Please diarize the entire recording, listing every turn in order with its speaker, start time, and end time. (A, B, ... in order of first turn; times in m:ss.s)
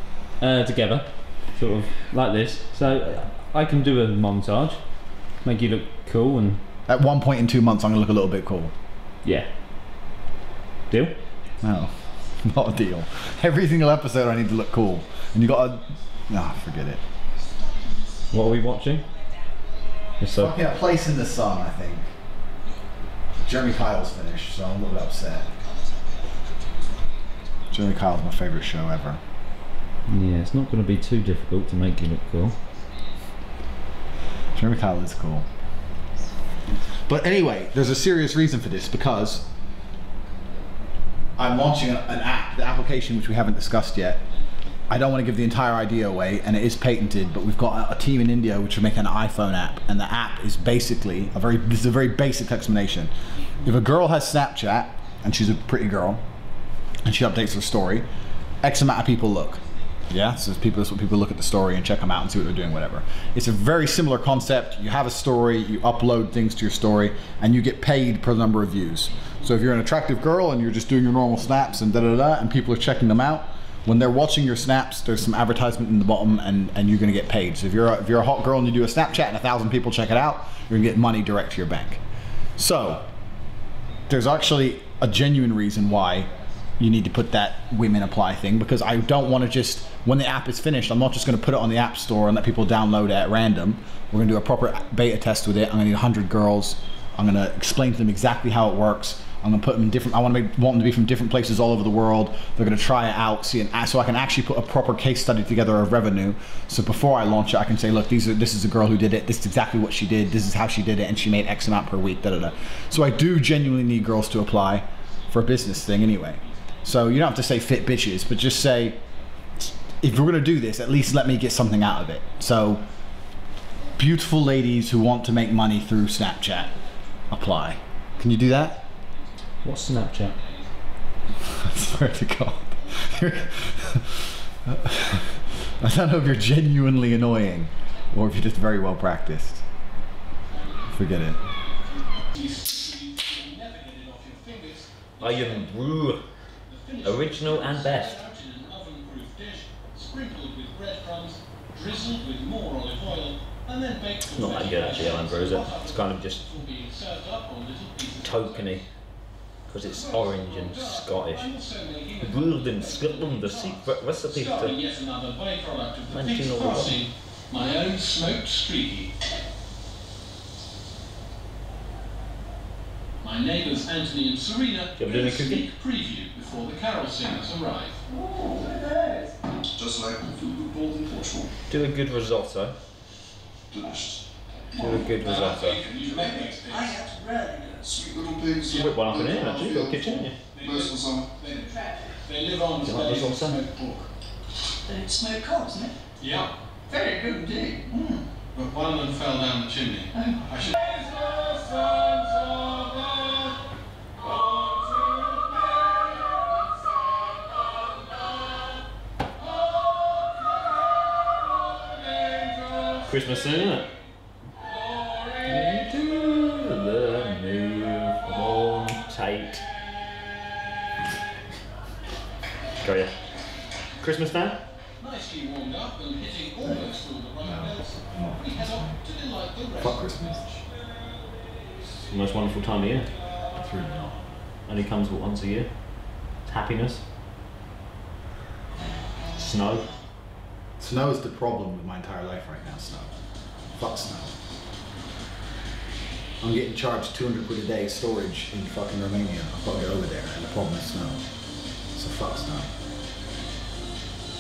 0:00.4-0:04.8 A
0:05.4-0:06.6 A
0:06.9-0:08.7 B
0:09.2-0:09.5 A
0:10.9-0:11.2 A
0:11.6-0:12.2 C
0:11.6-0:17.0 B
0:15.0-0:15.4 C
0:17.0-0:20.3 C
0:18.3-0:19.0 A
0:20.2-0:20.6 A
0:20.4-0:22.1 B
0:23.4-0:25.5 B
0:25.5-0:27.0 C
0:27.7-0:29.2 B
0:30.1-0:32.6 A
0:34.6-0:35.5 B
0:36.7-0:39.4 B
0:41.4-0:44.2 B
0:44.2-0:46.8 D
0:44.9-0:53.1 B
0:53.3-0:53.9 D
0:53.6-0:56.2 B
0:57.0-0:58.1 B
0:58.6-1:22.0 B
0:59.6-1:00.0 D
1:09.1-1:09.9 D
1:22.6-1:23.1 B
1:24.1-1:59.0 B
1:29.0-1:29.3 D
1:48.8-1:53.4 D
1:55.0-1:59.3 D
2:00.0-2:02.8 B
2:01.7-2:02.9 D
2:03.7-2:04.0 D
2:04.0-2:06.7 B
2:06.1-2:07.6 D
2:07.3-2:08.8 B
2:08.2-2:10.7 D
2:09.6-2:10.4 A
2:11.6-2:19.6 B
2:12.7-2:13.2 D
2:20.5-2:25.8 D
2:20.9-2:21.4 B
2:25.2-2:26.2 A
2:26.7-2:38.8 D
2:27.0-2:28.2 A
2:34.3-2:36.4 A
2:38.2-2:38.8 A
2:39.7-2:41.5 A
2:39.8-2:49.1 D
2:42.2-2:44.8 A
2:46.1-2:47.0 A
2:53.2-2:58.0 D
2:55.0-2:55.6 A
2:58.2-2:59.3 C
2:59.7-3:01.5 E
3:01.7-3:02.8 A
3:03.7-3:04.2 E
3:04.7-3:05.8 A
3:05.1-3:07.0 D
3:06.2-3:08.1 C
3:07.9-3:11.3 E
3:08.7-3:10.4 A
3:08.7-3:09.0 D
3:10.5-3:14.1 D
3:11.6-3:12.1 C
3:12.8-3:13.6 A
3:14.9-3:15.9 C
3:16.2-3:16.5 D
3:16.9-3:18.2 C
3:18.5-3:20.9 D
3:33.0-3:33.9 A
3:35.4-3:39.6 A
3:42.8-3:43.1 A
3:44.0-3:44.6 A
3:45.0-3:50.6 D
3:46.6-3:49.0 B
3:49.8-3:50.4 B
3:52.0-3:53.1 A
3:53.6-3:54.2 B
3:54.7-3:57.0 A
3:59.3-3:59.9 A
4:00.8-4:03.1 B
4:03.7-4:04.3 B
4:06.4-4:11.2 B
4:11.9-4:12.7 B